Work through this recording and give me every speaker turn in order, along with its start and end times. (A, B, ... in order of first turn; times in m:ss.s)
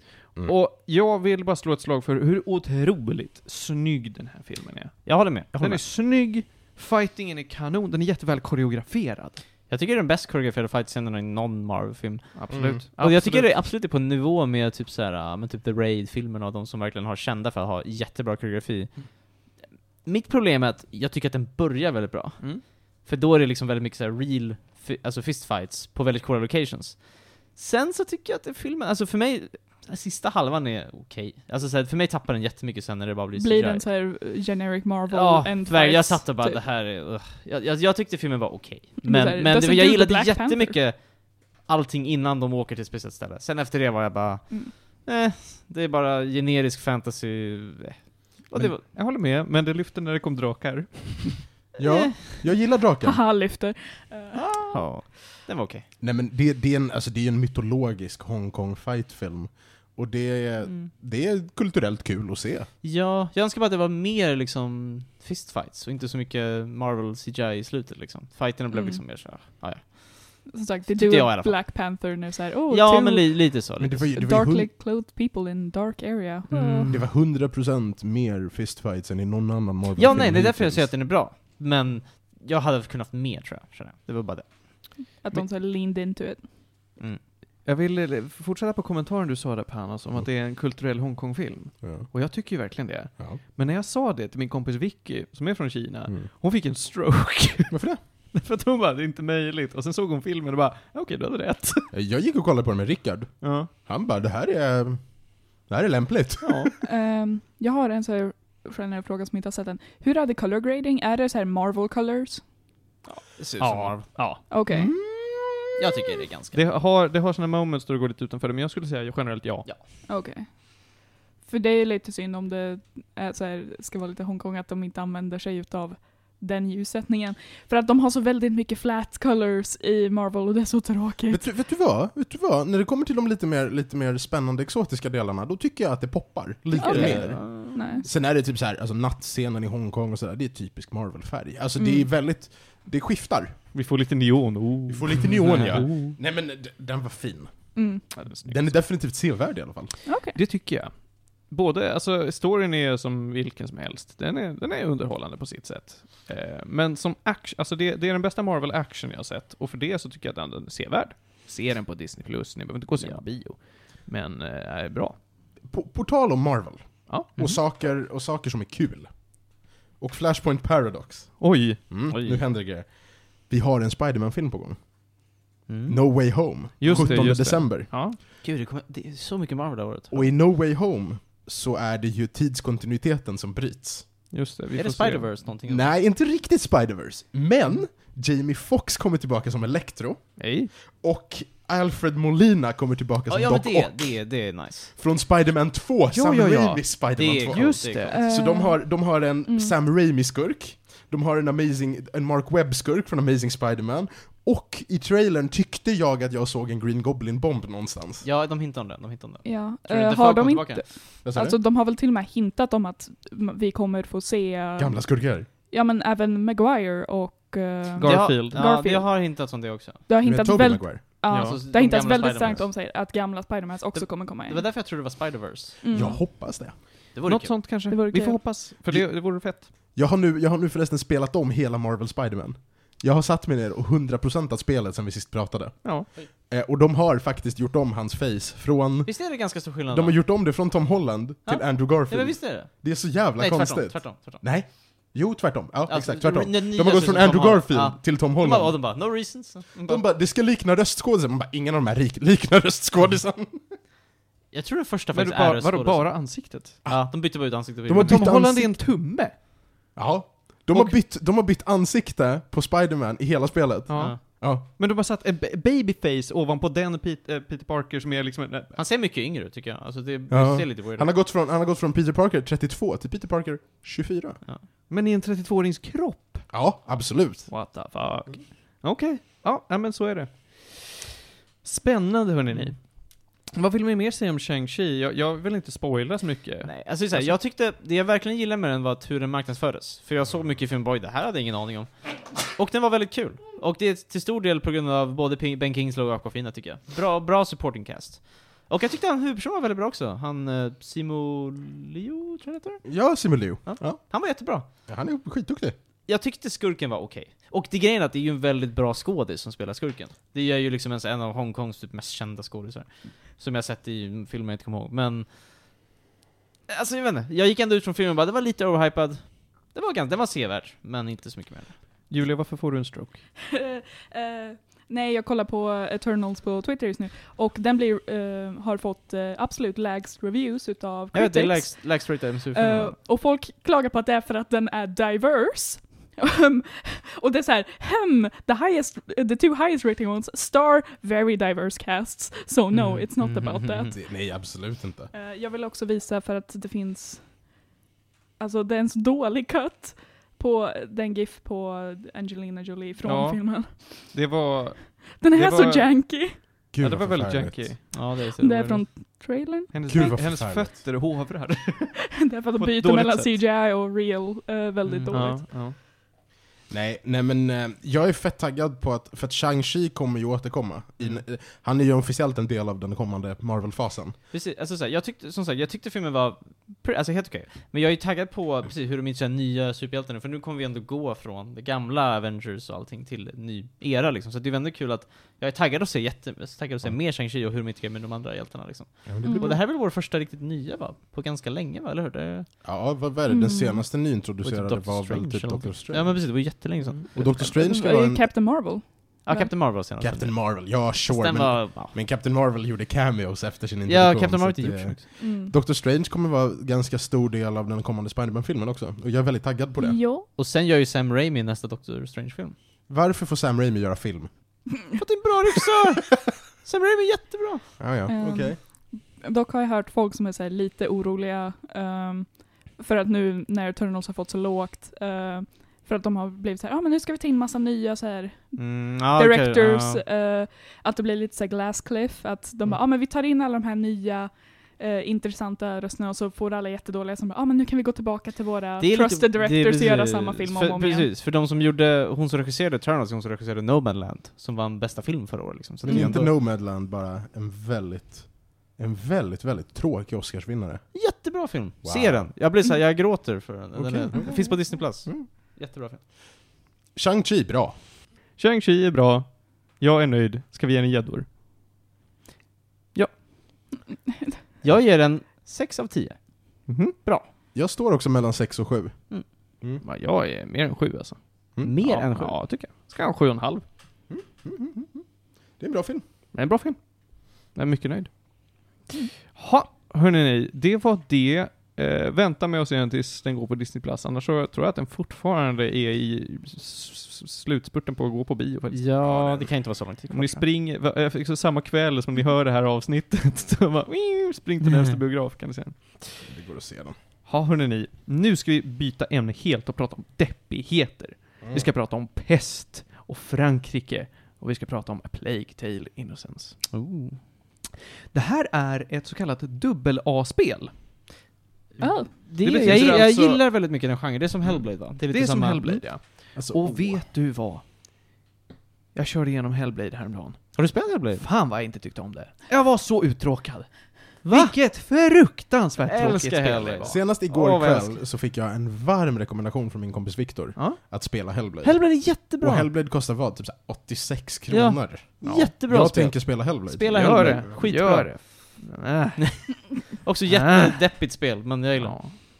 0:00.4-0:09.4 A
0:05.0-0:05.8 B
0:09.7-0:33.8 B
0:12.4-0:13.6 A
0:12.5-0:12.8 C
0:33.4-0:36.6 D
0:35.1-0:48.8 B
0:39.0-0:40.8 D
0:48.7-0:51.4 A
0:51.8-0:53.2 C
0:51.8-0:52.3 B
0:53.0-0:54.8 D
0:54.4-0:55.9 B
0:56.0-1:02.7 C
1:00.6-1:00.9 B
1:02.8-1:12.1 B
1:08.7-1:09.0 D
1:10.5-1:13.6 D
1:12.7-1:14.1 B
1:13.8-1:14.7 C
1:14.1-1:16.9 D
1:16.5-1:17.0 B
1:16.9-1:20.9 C
1:20.0-1:24.8 B
1:25.1-1:26.4 D
1:27.6-1:41.9 A
1:31.8-1:32.1 C
1:37.7-1:38.0 C
1:41.9-1:46.8 C
1:43.4-1:43.7 A
1:46.4-1:46.7 A
1:46.8-1:52.4 D
1:53.1-1:54.2 B
1:53.6-1:54.4 A
1:54.5-1:54.9 D
1:54.7-1:55.8 C
1:55.8-1:56.6 B
1:56.5-1:59.7 A
2:00.1-2:11.4 D
2:11.3-2:23.6 C
2:16.8-2:18.1 D
2:16.8-2:18.0 B
2:21.8-2:22.1 D
2:23.7-2:26.2 A
2:24.9-2:30.0 C
2:25.5-2:25.8 B
2:27.8-2:28.0 D
2:28.2-2:28.8 A
2:30.1-2:30.4 D
2:30.4-2:45.2 A
2:42.9-2:43.2 B
2:45.7-2:54.8 C
2:47.1-2:47.6 A
2:51.4-2:51.8 A
2:52.1-2:52.4 B
2:55.7-2:56.0 B
2:55.9-2:57.9 C
2:56.8-2:58.2 A
2:56.9-2:57.4 B
2:58.2-3:00.3 B
3:00.1-3:04.1 C
3:04.3-3:05.3 A
3:04.7-3:05.9 B
3:05.7-3:14.2 C
3:10.4-3:10.7 A
3:13.3-3:14.9 B
3:15.0-3:28.3 C
3:16.1-3:18.2 A
3:17.2-3:18.2 B
3:18.1-3:19.7 D
3:28.2-3:31.0 B
3:29.4-3:39.5 D
3:31.2-3:31.6 C
3:34.8-3:35.5 C
3:38.0-3:38.6 A
3:38.0-3:40.1 B
3:40.1-3:44.7 D
3:40.2-3:41.0 C
3:41.3-3:42.7 B
3:41.3-3:41.6 A
3:43.9-3:45.8 B
3:45.8-3:46.2 D
3:45.9-3:46.8 C
3:47.1-3:47.6 B
3:47.3-3:49.7 A
3:47.9-3:48.5 D
3:48.9-4:08.8 C
3:59.0-4:00.2 B
4:01.4-4:04.4 B
4:05.9-4:10.0 B
4:09.8-4:13.8 C
4:14.5-4:18.3 B
4:15.1-4:16.8 A
4:16.8-4:17.1 C
4:17.9-4:18.8 C
4:17.9-4:19.3 A
4:20.0-4:24.6 C
4:20.7-4:21.0 A
4:23.9-4:28.8 A
4:23.9-4:24.2 B
4:28.7-4:31.1 B
4:30.3-4:34.4 C
4:34.9-4:36.5 A
4:36.5-4:37.5 C
4:37.5-4:41.0 A
4:41.6-4:47.3 A
4:46.6-5:02.9 B
5:02.8-5:04.0 C
5:03.6-5:04.7 B
5:04.9-5:05.8 C
5:06.1-5:15.3 B
5:16.7-5:21.8 B
5:22.1-5:23.2 A
5:23.5-5:43.9 D
5:31.1-5:33.0 B
5:42.7-5:44.0 B
5:43.9-5:45.1 C
5:45.1-5:47.4 D
5:48.4-5:54.1 D
5:53.0-5:57.8 A
5:55.2-5:56.4 D
5:56.7-5:57.7 C
5:57.9-5:58.8 B
5:58.4-6:00.1 D
5:59.7-6:03.4 A
5:59.9-6:00.8 C
6:02.2-6:05.4 D
6:04.8-6:05.1 B
6:05.1-6:05.8 A
6:06.7-6:14.2 C
6:14.3-6:32.5 B
6:29.0-6:29.6 C
6:29.2-6:29.6 D
6:32.6-6:36.5 C
6:33.3-6:33.8 D
6:34.4-6:37.3 B
6:37.1-6:38.3 C
6:37.4-6:39.5 D
6:39.2-6:42.0 B
6:40.0-6:50.0 C
6:43.9-6:45.0 B
6:45.2-6:45.5 D
6:49.8-6:50.3 D
6:50.4-6:52.6 B
6:52.9-6:54.3 C
6:55.0-6:57.8 B
6:57.8-6:58.6 C
6:58.1-7:21.1 D
7:08.5-7:10.0 B
7:18.8-7:26.3 B
7:25.8-7:30.8 C
7:25.9-7:26.2 D
7:30.9-7:36.0 B
7:31.8-7:32.3 C
7:33.7-7:34.5 C
7:34.2-7:34.6 D
7:37.0-7:37.7 C
7:38.4-7:41.3 A
7:43.9-7:44.4 D
7:44.6-7:47.3 B
7:46.7-7:47.0 A
7:47.5-7:49.1 C
7:49.8-7:51.2 A
7:51.6-7:52.4 B
7:51.8-7:53.6 A
7:54.1-7:55.0 C
7:55.6-7:56.0 C
7:56.3-7:56.8 A
7:57.4-7:58.1 A
7:59.2-8:09.4 A
8:08.7-8:10.4 B
8:09.1-8:09.4 C
8:10.1-8:16.3 A
8:14.7-8:15.0 B
8:16.2-8:17.0 C
8:17.2-8:26.6 A
8:21.4-8:21.7 C
8:26.7-8:27.2 B
8:28.1-8:30.7 A
8:31.8-8:32.1 D
8:32.1-8:35.9 B
8:32.1-8:33.4 A
8:34.4-8:37.6 A
8:36.3-8:37.0 C
8:39.0-8:40.6 A
8:40.6-8:41.2 B
8:41.2-8:47.0 A
8:44.2-8:44.6 B
8:45.8-8:48.0 B
8:46.8-8:57.5 C
8:51.6-8:52.7 B
8:54.5-8:58.6 B
8:55.2-8:55.5 A
8:56.9-9:01.0 A
8:59.3-9:02.0 B
9:01.8-9:02.1 A